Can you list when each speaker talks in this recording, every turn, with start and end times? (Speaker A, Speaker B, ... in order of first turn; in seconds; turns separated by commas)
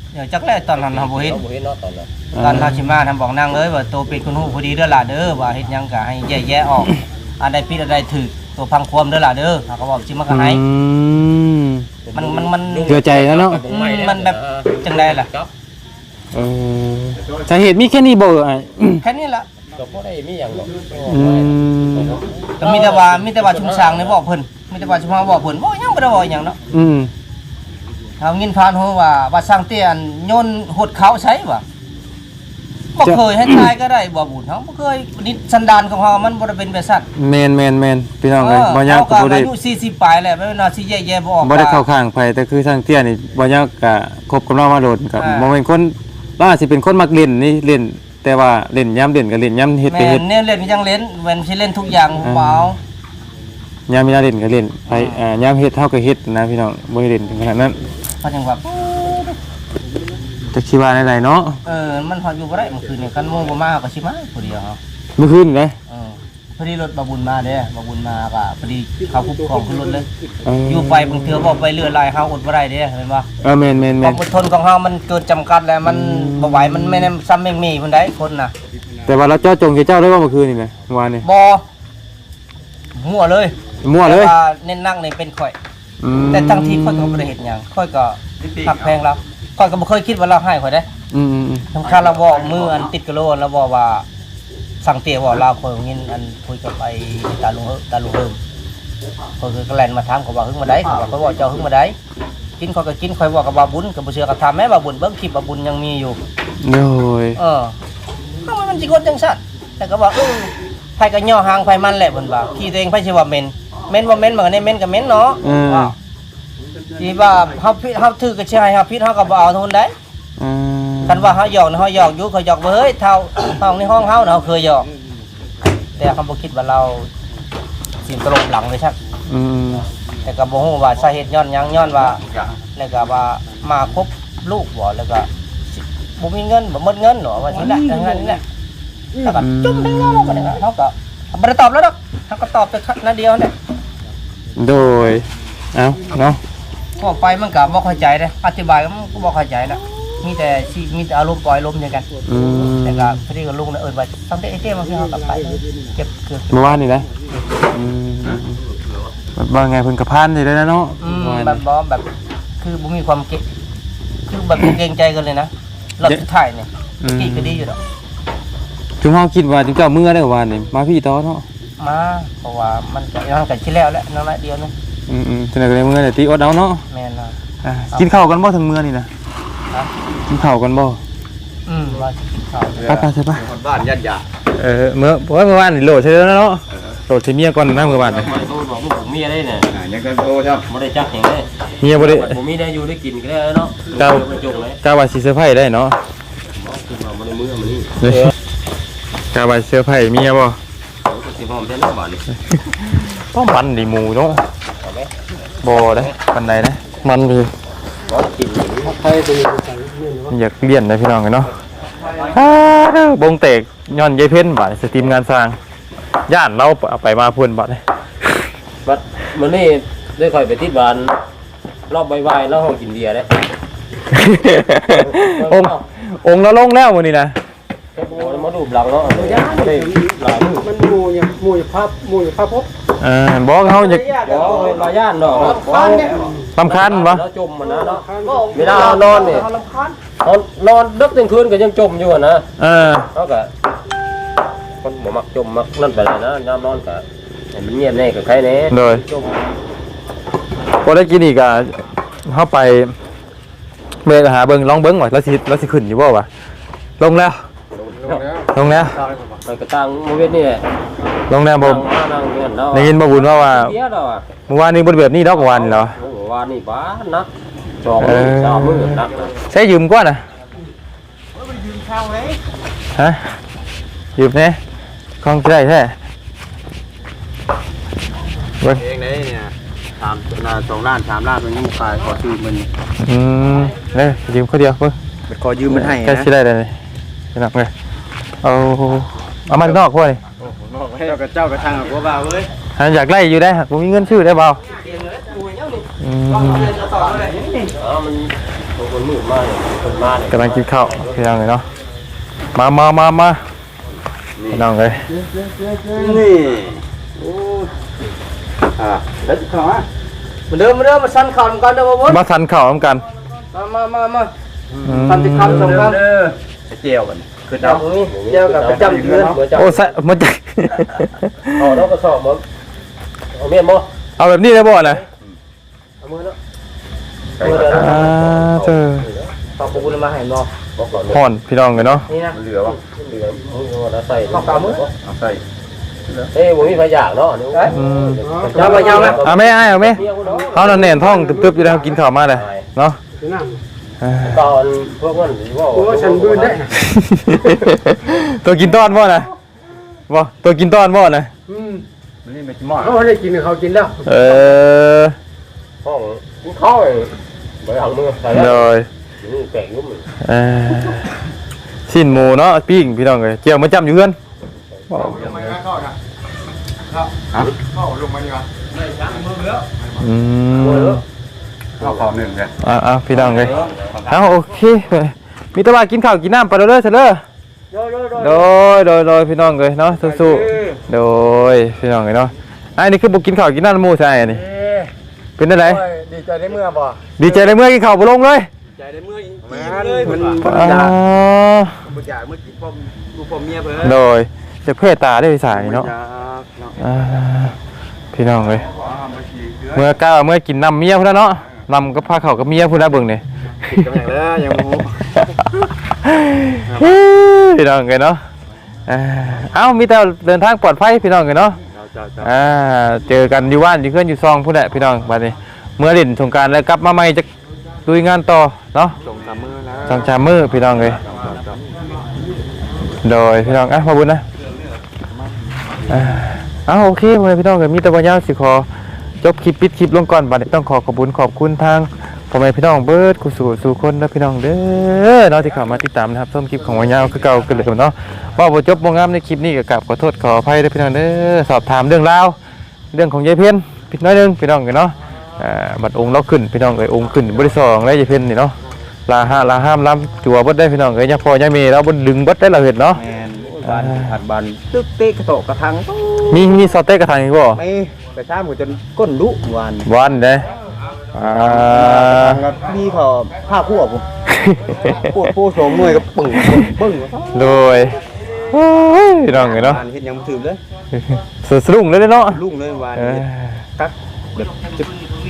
Speaker A: 0.1-1.4, Speaker B: 0.7-2.1, Speaker C: 2.3-3.0, Speaker A: 2.4-10.6, Speaker C: 10.3-11.8, Speaker B: 12.1-15.5, Speaker A: 12.1-13.1, Speaker C: 12.9-13.6, Speaker A: 13.7-15.3, Speaker C: 16.3-19.1, Speaker A: 19.0-19.5, Speaker B: 19.8-24.2, Speaker C: 21.1-22.3, Speaker A: 22.6-26.6, Speaker C: 26.7-27.1, Speaker A: 28.2-31.6, Speaker A: 33.0-37.1, Speaker C: 33.0-33.7, Speaker C: 37.2-39.5, Speaker A: 38.4-41.8, Speaker C: 41.4-50.2, Speaker A: 45.2-45.5, Speaker A: 49.9-52.8, Speaker C: 52.2-52.8, Speaker C: 53.9-57.8, Speaker A: 54.9-55.2, Speaker A: 58.2-59.4, Speaker C: 60.5-61.6, Speaker A: 61.6-64.8, Speaker C: 65.2-65.8, Speaker A: 65.9-70.1, Speaker C: 70.5-71.6, Speaker A: 70.7-73.3, Speaker C: 73.4-74.2, Speaker A: 74.0-78.5, Speaker C: 75.8-77.1, Speaker C: 79.1-81.2, Speaker A: 81.2-81.6, Speaker A: 82.9-85.6, Speaker C: 83.8-84.3, Speaker C: 86.0-87.3, Speaker A: 86.3-90.9, Speaker D: 88.4-89.0, Speaker C: 91.1-91.7, Speaker A: 91.7-94.0, Speaker D: 91.8-92.8, Speaker A: 94.8-98.4, Speaker A: 99.4-102.0, Speaker A: 102.6-106.2, Speaker C: 106.6-107.4, Speaker A: 107.4-107.7, Speaker A: 108.4-115.9, Speaker C: 115.4-116.0, Speaker A: 117.0-119.9, Speaker C: 120.4-121.4, Speaker A: 121.1-124.9, Speaker A: 126.0-127.1, Speaker A: 128.1-129.0, Speaker C: 129.3-129.9, Speaker A: 130.2-132.2, Speaker A: 132.8-138.4, Speaker A: 139.2-143.5, Speaker C: 139.3-140.5, Speaker C: 144.6-146.4, Speaker A: 147.0-152.1, Speaker C: 152.3-153.2, Speaker A: 152.8-156.8, Speaker C: 156.5-157.1, Speaker C: 157.6-158.6, Speaker C: 159.4-161.6, Speaker A: 161.0-162.1, Speaker A: 162.6-163.4, Speaker A: 164.3-167.8, Speaker C: 167.0-167.6, Speaker C: 169.0-171.4, Speaker A: 171.8-174.7, Speaker C: 175.1-176.8, Speaker A: 176.9-177.4, Speaker C: 177.6-179.1, Speaker C: 180.3-181.0, Speaker A: 181.7-182.9, Speaker D: 182.8-184.2, Speaker C: 182.8-183.5, Speaker C: 184.6-188.4, Speaker B: 187.8-189.7, Speaker D: 189.7-190.7, Speaker B: 190.7-194.8, Speaker C: 191.8-192.4, Speaker C: 193.9-194.3, Speaker C: 194.8-196.0, Speaker B: 196.6-198.3, Speaker C: 198.0-198.3, Speaker C: 199.3-200.6, Speaker B: 201.1-202.3, Speaker C: 202.5-204.4, Speaker B: 204.8-205.1, Speaker C: 205.6-207.5, Speaker B: 205.6-206.2, Speaker B: 208.1-209.0, Speaker E: 208.9-210.3, Speaker C: 210.3-211.5, Speaker C: 212.3-215.6, Speaker C: 216.3-218.4, Speaker B: 218.8-221.2, Speaker B: 221.9-223.4, Speaker C: 224.1-227.4, Speaker B: 224.9-225.8, Speaker B: 227.9-230.7, Speaker A: 229.2-229.7, Speaker E: 230.6-232.7, Speaker C: 233.0-234.1, Speaker A: 233.7-236.3, Speaker B: 234.2-239.5, Speaker C: 236.6-237.2, Speaker E: 238.0-238.6, Speaker A: 238.2-240.0, Speaker B: 240.2-242.5, Speaker C: 242.6-243.1, Speaker B: 243.1-243.5, Speaker B: 244.8-249.6, Speaker C: 248.7-249.0, Speaker C: 250.8-252.9, Speaker C: 254.0-256.3, Speaker C: 257.0-257.4, Speaker B: 257.7-258.4, Speaker C: 258.5-259.0, Speaker B: 259.4-260.6, Speaker C: 261.3-261.9, Speaker B: 261.6-264.3, Speaker C: 262.7-263.8, Speaker C: 264.5-266.0, Speaker B: 265.3-267.3, Speaker B: 267.8-269.4, Speaker C: 268.0-270.2, Speaker D: 271.4-272.4, Speaker C: 272.9-273.4, Speaker C: 274.2-274.6, Speaker C: 275.2-275.9, Speaker D: 278.7-282.7, Speaker C: 283.0-285.0, Speaker D: 285.3-286.3, Speaker C: 285.7-286.8, Speaker C: 287.4-287.7, Speaker C: 288.4-290.2, Speaker D: 290.4-292.5, Speaker C: 292.8-294.6, Speaker A: 294.7-295.9, Speaker C: 296.0-296.8, Speaker D: 296.4-297.7, Speaker A: 296.5-297.4, Speaker B: 297.7-301.2, Speaker C: 300.3-301.6, Speaker C: 302.6-303.4, Speaker C: 304.5-305.1, Speaker D: 305.1-307.6, Speaker D: 308.8-309.9, Speaker A: 310.5-312.2, Speaker C: 312.1-313.0, Speaker A: 313.5-314.3, Speaker C: 314.8-315.9, Speaker A: 315.1-316.0, Speaker D: 315.5-316.0, Speaker B: 315.6-316.3, Speaker D: 316.7-317.9, Speaker A: 317.6-319.4, Speaker B: 318.0-319.9, Speaker D: 318.7-319.4, Speaker C: 319.5-321.8, Speaker B: 321.5-322.4, Speaker B: 323.3-323.9, Speaker C: 324.2-325.0, Speaker B: 326.0-326.4, Speaker D: 327.4-328.0, Speaker B: 327.4-329.3, Speaker A: 327.4-327.9, Speaker C: 327.6-329.1, Speaker A: 329.6-330.5, Speaker B: 330.8-331.2, Speaker C: 331.1-332.1, Speaker A: 332.1-332.4, Speaker D: 332.3-332.8, Speaker B: 332.6-334.9, Speaker A: 334.3-334.8, Speaker D: 335.0-335.4, Speaker B: 336.3-340.9, Speaker C: 337.7-343.0, Speaker A: 338.5-339.2, Speaker E: 340.9-341.3, Speaker B: 341.5-342.7, Speaker E: 343.2-343.6, Speaker C: 344.0-344.4, Speaker B: 344.2-346.8, Speaker E: 345.7-346.7, Speaker C: 346.8-349.3, Speaker C: 350.1-351.3, Speaker E: 351.5-351.8, Speaker D: 352.2-353.0, Speaker E: 352.8-354.0, Speaker C: 354.1-355.2, Speaker B: 355.8-360.1, Speaker C: 358.3-358.9, Speaker C: 360.2-361.1, Speaker C: 361.9-364.2, Speaker B: 364.8-365.6, Speaker C: 364.9-365.3, Speaker D: 364.9-365.9, Speaker D: 366.9-368.5, Speaker C: 370.0-371.0, Speaker B: 371.8-372.1, Speaker D: 371.8-372.5, Speaker C: 372.6-377.2, Speaker D: 373.2-374.1, Speaker B: 373.3-373.9, Speaker A: 377.9-378.4, Speaker C: 378.2-384.4, Speaker D: 380.1-380.6, Speaker B: 384.2-384.9, Speaker C: 385.4-385.8, Speaker D: 385.7-387.3, Speaker C: 387.2-388.5, Speaker D: 388.8-391.0, Speaker A: 389.5-390.4, Speaker C: 390.4-391.8, Speaker D: 391.8-393.9, Speaker C: 393.8-395.9, Speaker D: 395.5-396.8, Speaker C: 396.8-397.6, Speaker C: 398.1-398.7, Speaker D: 398.7-399.8, Speaker C: 399.7-403.9, Speaker D: 403.7-405.2, Speaker C: 406.0-408.2, Speaker D: 406.7-407.0, Speaker C: 408.9-411.6, Speaker D: 411.7-412.3, Speaker C: 412.2-417.2, Speaker C: 417.9-419.0, Speaker D: 419.0-420.1, Speaker C: 419.9-421.0, Speaker D: 420.8-421.8, Speaker C: 423.0-424.2, Speaker C: 425.9-428.7, Speaker C: 429.2-442.4, Speaker C: 442.9-448.6, Speaker C: 449.1-453.0, Speaker D: 452.9-456.5, Speaker C: 453.6-454.1, Speaker C: 456.3-457.6, Speaker D: 457.6-459.9, Speaker C: 459.9-460.5, Speaker C: 461.1-462.4, Speaker D: 461.2-464.1, Speaker C: 464.3-465.3, Speaker D: 464.9-467.6, Speaker C: 466.4-466.7, Speaker C: 467.3-468.0, Speaker C: 468.5-469.8, Speaker D: 469.3-470.6, Speaker C: 470.9-472.4, Speaker D: 472.3-473.3, Speaker C: 472.9-473.6, Speaker D: 473.8-474.9